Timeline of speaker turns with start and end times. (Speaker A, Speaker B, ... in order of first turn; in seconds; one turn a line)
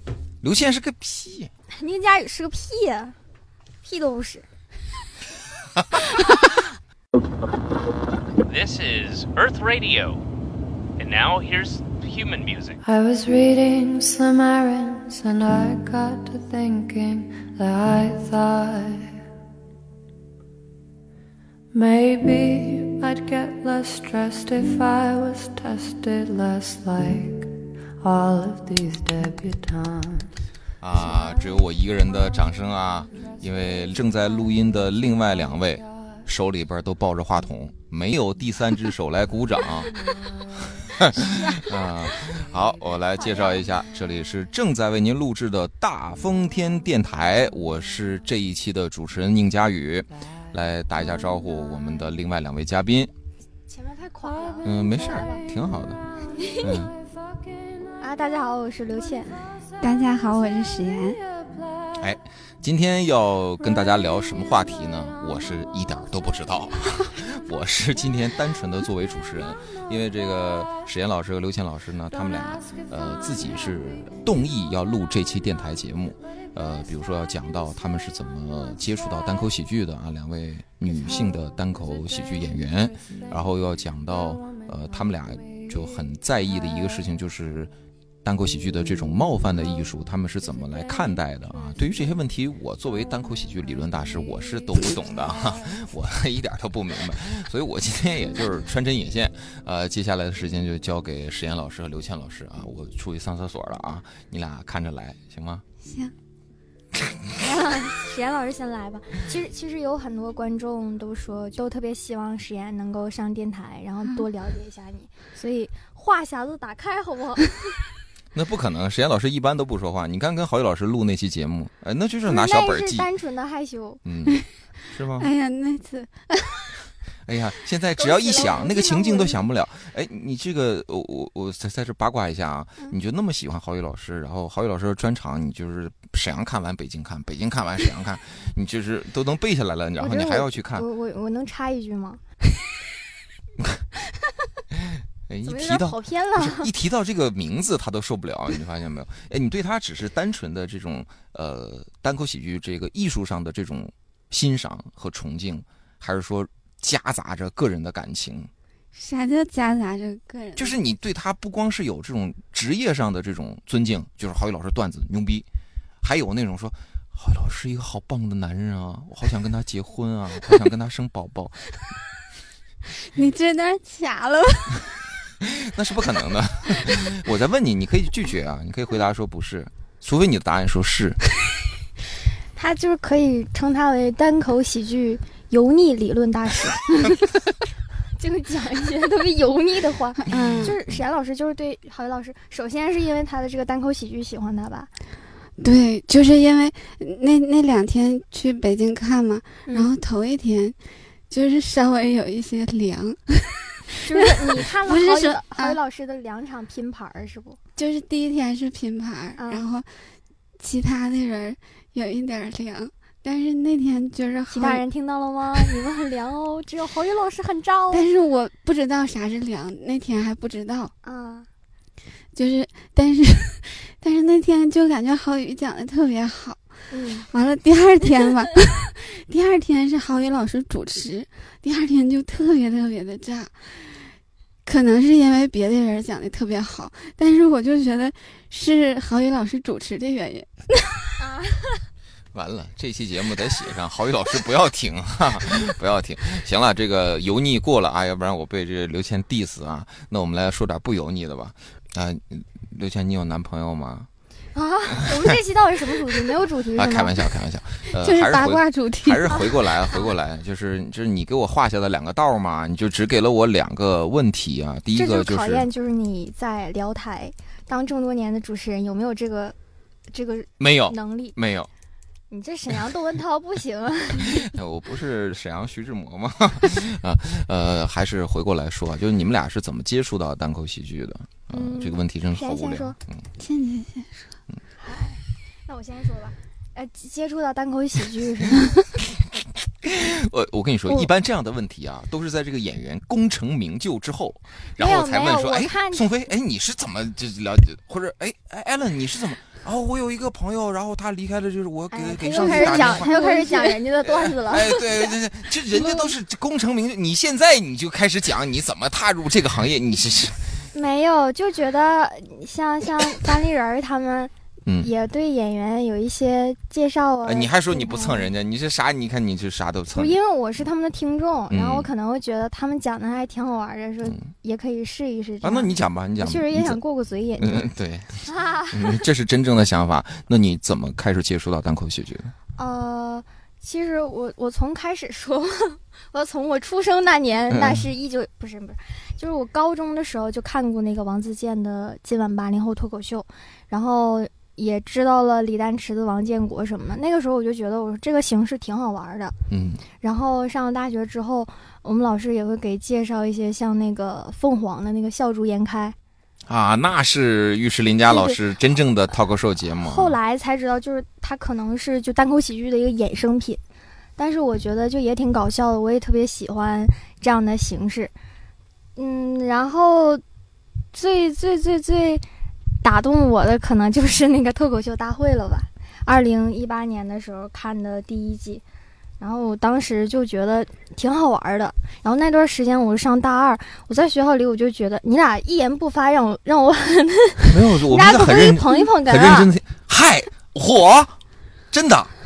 Speaker A: 0.4-1.5
Speaker B: 1.7-3.1
Speaker B: 3.8-4.4
Speaker C: 8.4-10.2
Speaker C: 11.0-12.8
Speaker D: 12.8-19.2
Speaker D: 21.7-30.3
Speaker A: 30.8-40.0
Speaker D: 33.1-34.1
Speaker D: 40.0-40.3
Speaker A: 40.8-53.1
Speaker B: 53.7-55.4
Speaker D: 54.4-55.4
Speaker A: 54.6-56.0
Speaker D: 56.2-58.0
Speaker B: 56.4-56.6
Speaker A: 56.6-56.9
Speaker B: 58.0-59.4
Speaker E: 59.8-61.2
Speaker D: 61.0-61.9
Speaker A: 62.0-87.7
Speaker D: 82.2-83.3
Speaker A: 88.2-105.6
Speaker E: 105.8-106.1
Speaker B: 107.4-117.7
Speaker A: 118.3-123.1
Speaker B: 122.3-124.0
Speaker A: 124.0-125.3
Speaker E: 125.2-126.7
Speaker A: 127.3-140.8
Speaker B: 128.0-129.4
Speaker B: 140.0-142.2
Speaker A: 143.6-143.8
Speaker A: 144.7-158.5
Speaker B: 145.4-146.7
Speaker E: 158.9-160.8
Speaker A: 160.6-165.4
Speaker A: 166.0-171.6
Speaker E: 172.9-174.9
Speaker A: 175.4-181.2
Speaker B: 182.5-187.2
Speaker B: 188.2-194.9
Speaker E: 190.3-190.8
Speaker E: 195.6-200.8
Speaker B: 199.7-199.9
Speaker E: 201.3-205.8
Speaker B: 204.0-207.6
Speaker E: 207.8-209.9
Speaker B: 209.3-209.7
Speaker E: 210.6-214.8
Speaker B: 214.5-218.1
Speaker E: 217.9-220.9
Speaker B: 221.0-221.5
Speaker E: 222.3-226.6
Speaker B: 226.9-227.3
Speaker E: 227.3-233.5
Speaker E: 234.6-240.9
Speaker B: 241.2-241.8
Speaker A: 242.3-254.1
Speaker B: 254.5-257.2
Speaker A: 256.8-265.7
Speaker E: 258.0-259.4
Speaker B: 264.9-269.5
Speaker B: 270.1-271.4
Speaker A: 270.6-271.7
Speaker B: 272.3-274.4
Speaker A: 274.2-283.2
Speaker B: 281.5-283.0
Speaker E: 283.4-284.2
Speaker B: 284.8-288.8
Speaker A: 289.8-303.5
Speaker B: 294.8-296.1
Speaker B: 301.9-305.1
Speaker E: 302.4-303.5
Speaker A: 304.0-310.6
Speaker B: 305.7-306.1
Speaker B: 310.7-318.3
Speaker A: 317.2-320.1
Speaker B: 319.9-327.7
Speaker A: 321.5-321.9
Speaker A: 325.4-326.8
Speaker A: 327.4-332.3
Speaker B: 328.3-329.0
Speaker B: 332.6-349.3
Speaker A: 337.5-337.9
Speaker A: 349.5-349.8
Speaker B: 349.9-355.9
Speaker A: 356.5-360.1
Speaker B: 358.1-358.4
Speaker B: 359.8-363.6
Speaker B: 364.2-368.1
Speaker B: 369.0-370.2
Speaker B: 370.9-372.2
Speaker B: 372.8-378.6
Speaker B: 379.2-389.5
Speaker A: 387.4-391.1
Speaker A: 391.7-392.1